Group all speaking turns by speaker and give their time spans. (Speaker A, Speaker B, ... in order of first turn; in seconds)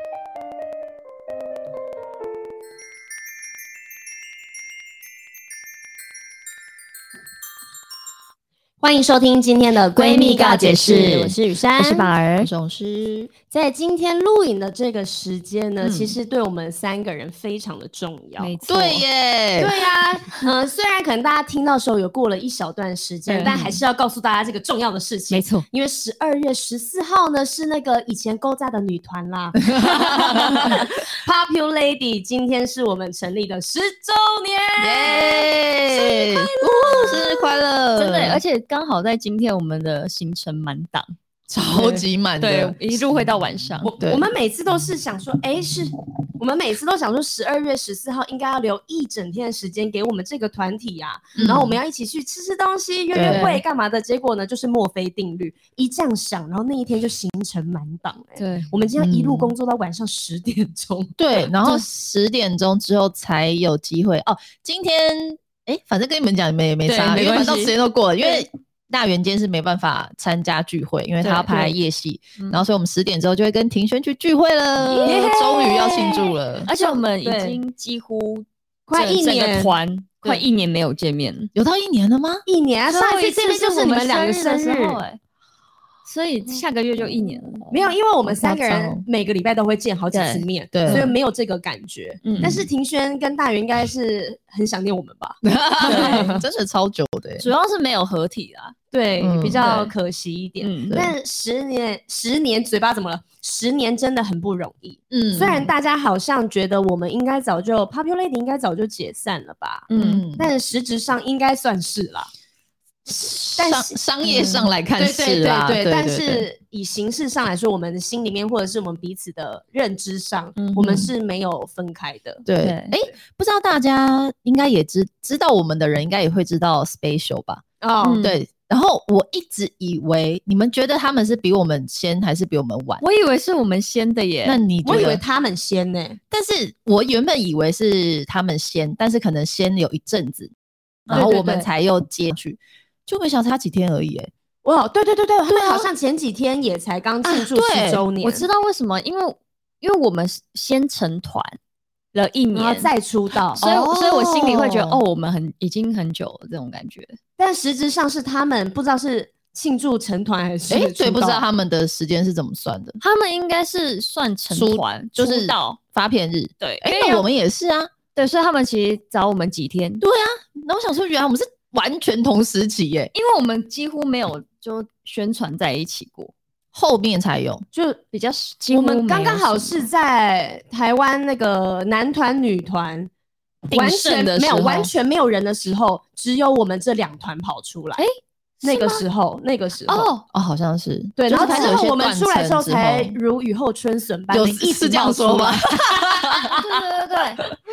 Speaker A: 8.8-12.1, 13.5-18.6, 19.6-37.4, 41.7-42.0, 43.8-61.2, 75.0-77.6, 78.9-80.4, 82.5-85.0, 87.7-96.4, 98.9-112.3, 113.2-113.9, 114.9-122.5, 127.8-128.2, 134.8-136.2, 141.1-141.7, 144.6-148.5, 152.5-153.6, 157.4-161.4, 177.7-178.0, 178.7-183.1, 183.7-188.0, 188.6-190.1, 191.2-196.3
Speaker B: 9.9-12.5, 15.8-16.2, 18.4-19.0, 23.3-23.6, 25.3-25.6, 36.6-37.2, 38.0-41.1, 42.4-43.9, 53.2-53.6, 58.4-58.7, 66.8-67.7, 71.2-71.7, 72.4-72.6, 74.8-75.4, 76.7-81.5, 82.9-85.2, 86.0-87.9, 90.1-91.1, 92.2-92.6, 95.8-96.3, 97.4-98.7, 99.6-99.9, 100.6-101.0, 109.9-110.2, 114.2-114.7, 120.6-121.1, 122.6-122.9, 128.0-128.4, 133.0-135.2, 141.1-141.4, 148.2-151.6, 152.1-152.9, 153.5-157.2, 163.0-165.8, 166.6-167.2, 168.1-170.0, 173.1-176.3, 178.1-179.8, 183.7-184.9, 188.6-189.0, 189.9-190.2, 191.3-191.8, 196.5-197.4
Speaker C: 12.4-13.3, 18.7-19.7, 23.4-23.8, 29.7-30.7, 34.8-38.4, 41.5-43.2, 44.0-44.3, 51.4-51.8, 53.1-53.5, 59.0-59.5, 61.2-76.7, 81.5-82.4, 88.2-89.0, 90.7-91.1, 92.3-92.6, 95.4-97.5, 99.2-99.6, 105.1-105.7, 110.0-110.5, 113.1-116.5, 122.5-127.6, 128.2-133.0, 134.4-135.2, 136.3-140.5, 141.1-144.3, 145.5-145.9, 147.3-148.0, 153.6-155.0, 160.7-163.0, 164.5-167.9, 170.0-173.1, 176.7-177.6, 190.3-193.2, 194.3-196.7